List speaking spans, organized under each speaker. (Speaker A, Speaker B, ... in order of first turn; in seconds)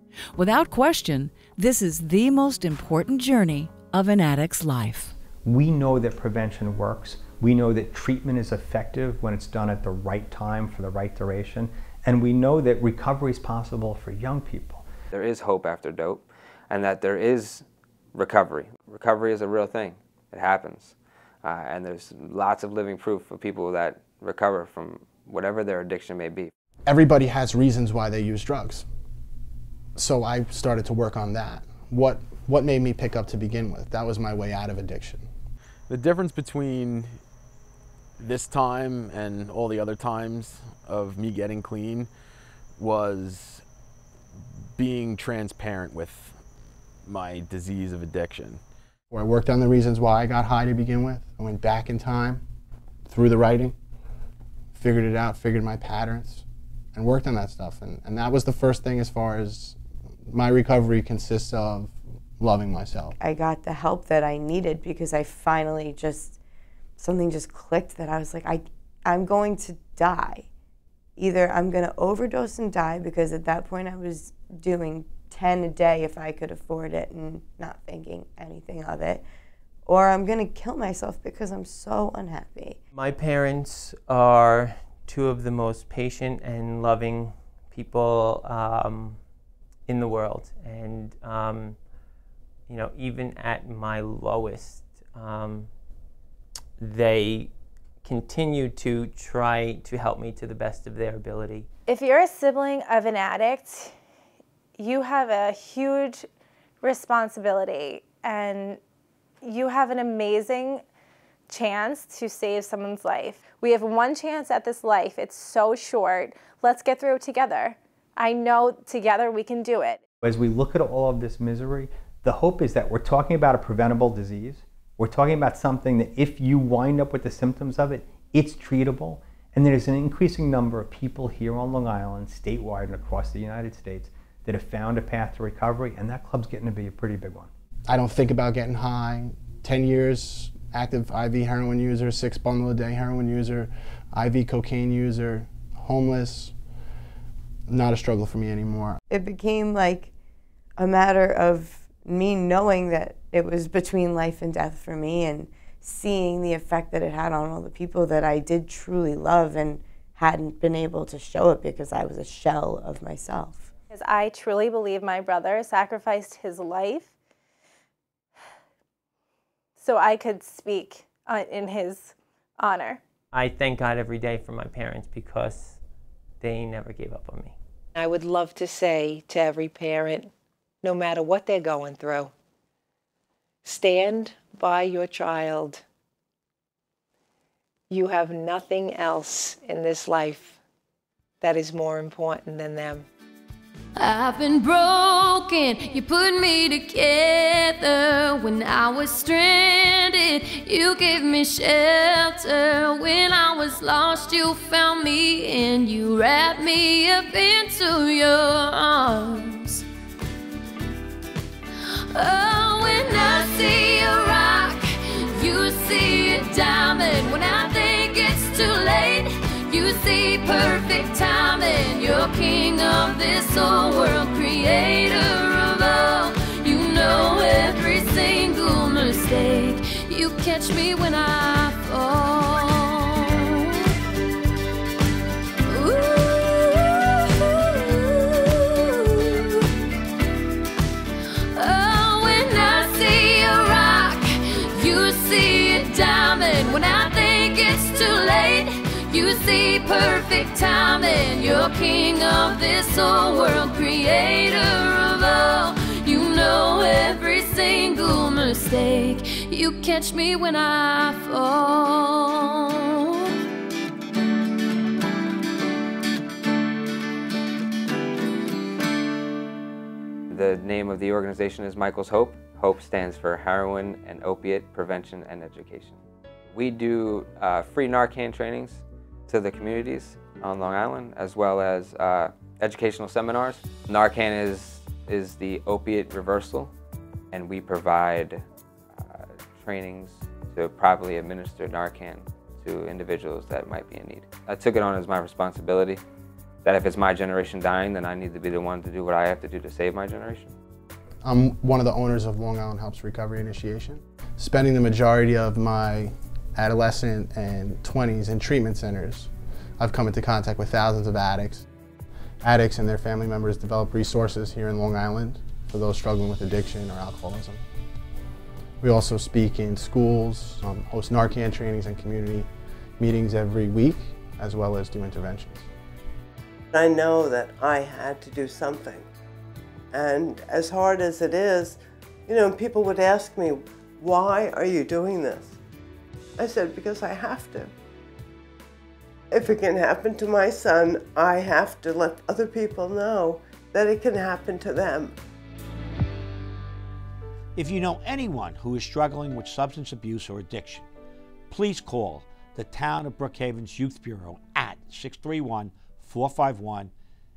Speaker A: 0.3-5.2
Speaker B: 5.4-14.8, 120.2-137.5
Speaker C: 15.1-26.5, 270.3-286.7, 287.3-296.0, 296.6-300.5
Speaker D: 26.9-28.9, 29.9-35.3, 49.1-52.4, 53.1-53.7, 54.7-63.1, 137.9-146.5, 147.7-149.0, 301.2-311.6, 312.4-317.6, 318.8-322.5, 323.0-325.7
Speaker E: 35.9-37.2, 38.2-42.1, 42.8-43.6, 44.8-46.4, 47.0-48.6
Speaker F: 63.2-66.4, 67.0-70.5, 71.2-79.2, 79.8-82.8, 149.1-150.1, 150.8-163.7
Speaker G: 82.9-89.2, 89.9-91.8, 92.7-95.7, 96.8-97.5, 98.0-101.7, 173.3-175.8, 176.4-177.6
Speaker H: 101.9-103.9, 104.8-106.2, 106.8-108.8, 109.4-110.8, 111.5-120.0, 163.9-167.1, 169.8-173.0
Speaker I: 177.9-180.3, 180.8-182.3, 183.6-185.8, 187.9-190.6, 191.4-193.1
Speaker J: 193.9-209.8, 211.8-233.9, 235.7-239.7, 241.5-263.3
Speaker K: 326.7-329.1, 329.9-335.6, 336.4-337.7, 339.3-345.1
Speaker L: 347.6-350.9, 351.5-356.9